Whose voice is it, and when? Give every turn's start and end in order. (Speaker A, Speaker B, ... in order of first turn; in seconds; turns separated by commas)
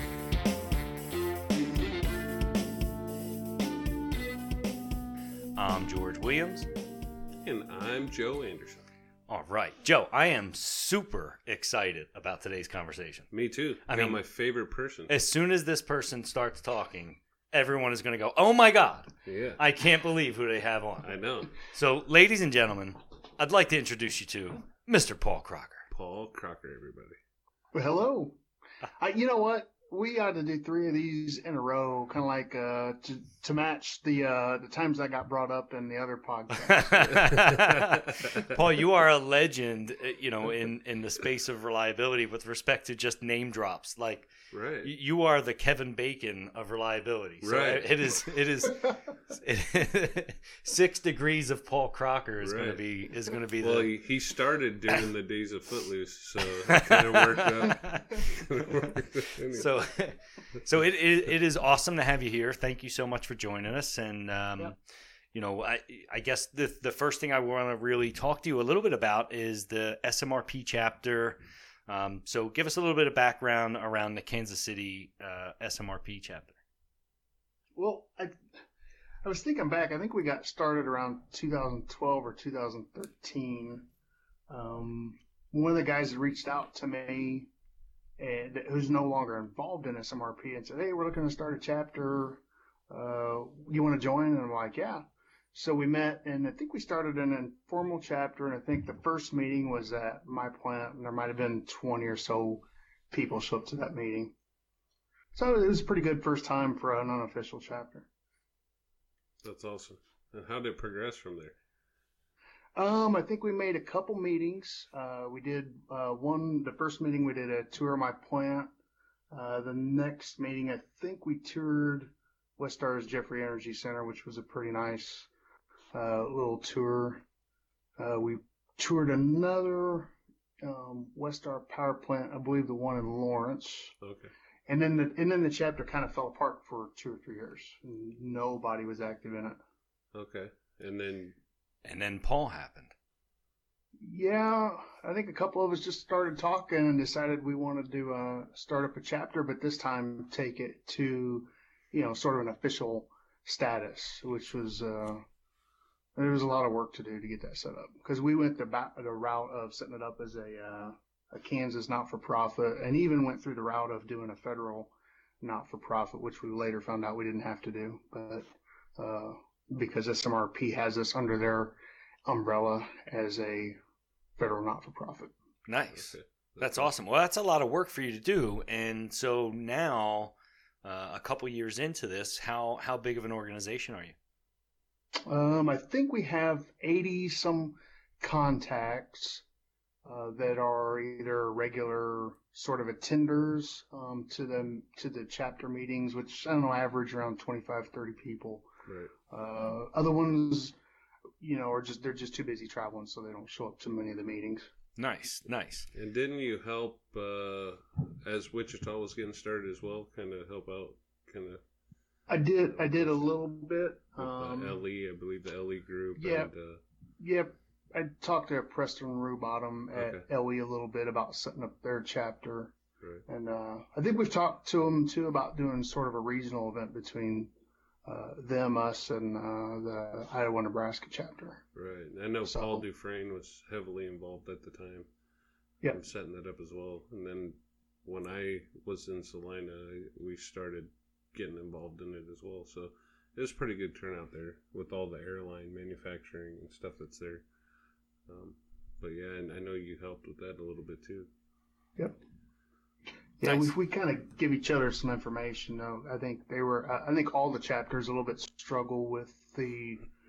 Speaker A: 5.6-6.7, Speaker B: 7.4-8.8, Speaker A: 9.3-13.3, Speaker B: 13.3-15.1, Speaker A: 13.9-14.2, Speaker A: 15.1-25.8, Speaker B: 19.2-19.6, Speaker B: 21.0-21.5, Speaker B: 25.9-27.2, Speaker C: 27.7-28.4, Speaker C: 29.0-37.3, Speaker A: 36.6-44.3, Speaker B: 37.2-38.5, Speaker B: 44.5-44.9, Speaker A: 44.8-53.9, Speaker B: 47.4-48.0, Speaker B: 52.4-52.8, Speaker B: 53.6-59.7, Speaker A: 56.7-58.9, Speaker A: 59.5-64.8, Speaker A: 65.3-76.6, Speaker C: 77.7-78.3, Speaker C: 79.2-83.9, Speaker C: 84.5-87.5, Speaker C: 88.2-104.3, Speaker C: 105.3-108.1, Speaker B: 109.4-111.5, Speaker C: 112.8-118.7, Speaker C: 119.3-125.3, Speaker C: 125.9-127.2, Speaker C: 128.0-133.9, Speaker B: 134.0-134.3, Speaker C: 134.7-139.6, Speaker B: 140.1-141.3, Speaker A: 141.8-142.9, Speaker C: 144.0-155.2, Speaker C: 156.2-173.8, Speaker C: 174.4-175.3, Speaker A: 175.7-184.1, Speaker B: 175.9-176.9, Speaker C: 185.3-189.4, Speaker C: 190.0-198.7, Speaker B: 198.8-199.1, Speaker C: 199.3-200.7, Speaker C: 201.4-204.7, Speaker A: 205.0-205.9, Speaker B: 205.9-211.6, Speaker C: 212.3-214.8, Speaker B: 212.8-213.2, Speaker B: 214.2-216.8, Speaker C: 216.2-216.5, Speaker C: 217.2-222.7, Speaker B: 219.9-220.2, Speaker C: 223.3-227.5, Speaker C: 228.1-231.6, Speaker B: 231.7-235.1, Speaker C: 232.5-232.8, Speaker B: 235.9-247.4, Speaker B: 248.2-251.3, Speaker C: 253.4-260.1, Speaker A: 253.4-253.7